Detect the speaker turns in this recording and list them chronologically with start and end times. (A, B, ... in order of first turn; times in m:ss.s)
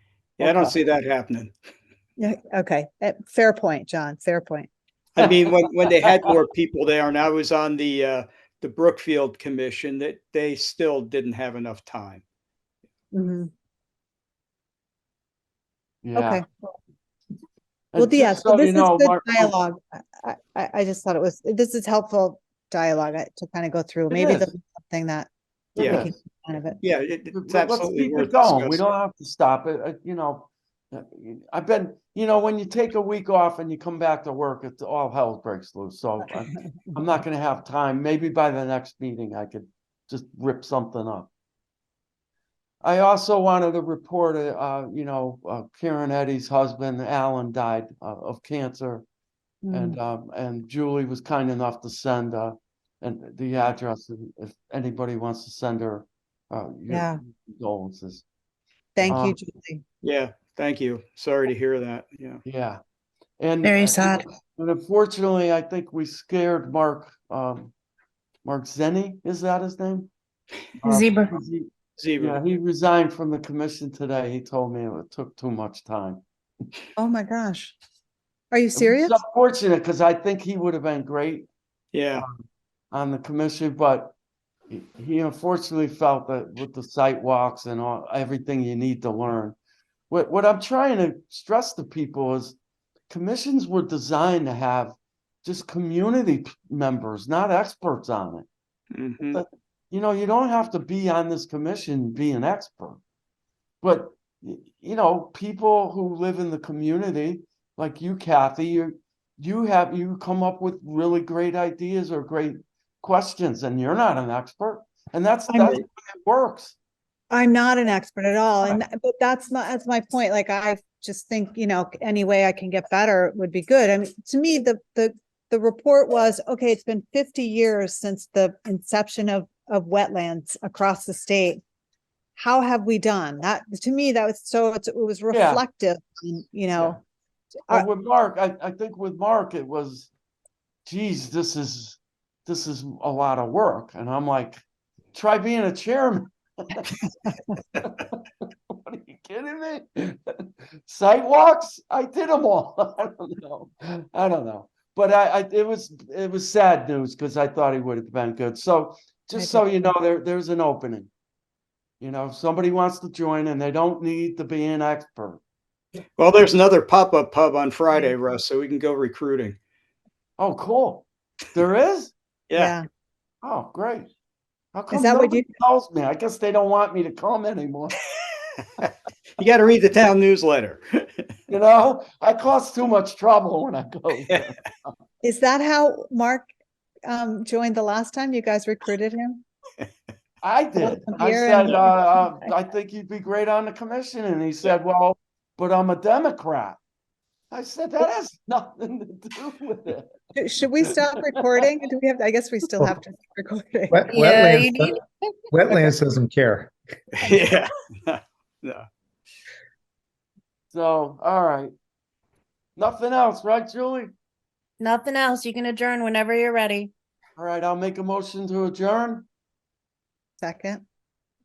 0:00.4-0:01.5 A
0:00.4-0:00.7 B
0:02.2-0:04.7 B
0:05.1-0:12.2 A
0:13.1-0:13.5 B
0:16.0-0:16.4 C
0:16.1-0:16.7 B
0:17.9-0:19.5 C
0:18.0-0:26.8 B
0:24.1-0:24.5 C
0:25.7-0:26.2 C
0:25.8-0:26.1 A
0:26.8-0:28.8 A
0:27.3-0:41.3 C
0:36.3-0:36.6 B
0:42.8-0:49.0 C
0:49.6-0:50.0 B
0:49.7-0:58.2 C
0:56.9-0:57.2 B
0:59.0-0:59.8 B
0:59.0-0:59.4 C
1:00.0-1:02.4 A
1:02.4-1:02.8 C
1:03.4-1:07.7 C
1:03.6-1:04.2 D
1:08.4-1:10.1 C
1:10.8-1:16.2 C
1:10.8-1:11.4 D
1:12.0-1:12.4 A
1:17.0-1:17.8 B
1:18.5-1:19.2 B
1:18.8-1:21.5 C
1:21.9-1:22.2 A
1:22.9-1:24.2 C
1:24.7-1:29.6 C
1:30.1-1:32.6 C
1:33.1-1:38.5 C
1:38.9-1:39.4 A
1:39.3-1:43.0 C
1:43.8-1:56.8 C
1:55.5-1:55.8 B
1:57.3-2:11.6 B
2:12.4-2:17.0 B
2:15.3-2:15.6 C
2:17.7-2:20.1 C
2:20.8-2:26.9 C
2:27.2-2:27.5 B
2:27.8-2:41.1 C
2:39.3-2:39.9 B
2:42.0-2:45.4 C
2:46.2-2:49.6 A
2:50.4-2:52.1 C
2:52.6-2:52.8 B
2:53.4-2:54.1 C
2:54.7-2:58.0 C
2:54.9-2:55.5 B
2:58.8-3:01.3 A
3:01.5-3:04.9 C
3:04.2-3:04.5 A
3:05.2-3:06.5 B
3:07.0-3:09.4 B
3:10.4-3:16.8 C
3:10.8-3:12.5 B
3:17.5-3:20.1 C
3:20.3-3:24.1 B
3:20.8-3:21.6 C
3:23.9-3:24.9 E
3:24.1-3:25.0 D
3:25.5-3:26.7 E
3:27.1-3:28.8 A
3:30.7-3:31.7 C
3:32.8-3:34.1 C
3:34.8-3:36.9 D
3:37.4-3:39.3 C
3:40.4-3:40.8 B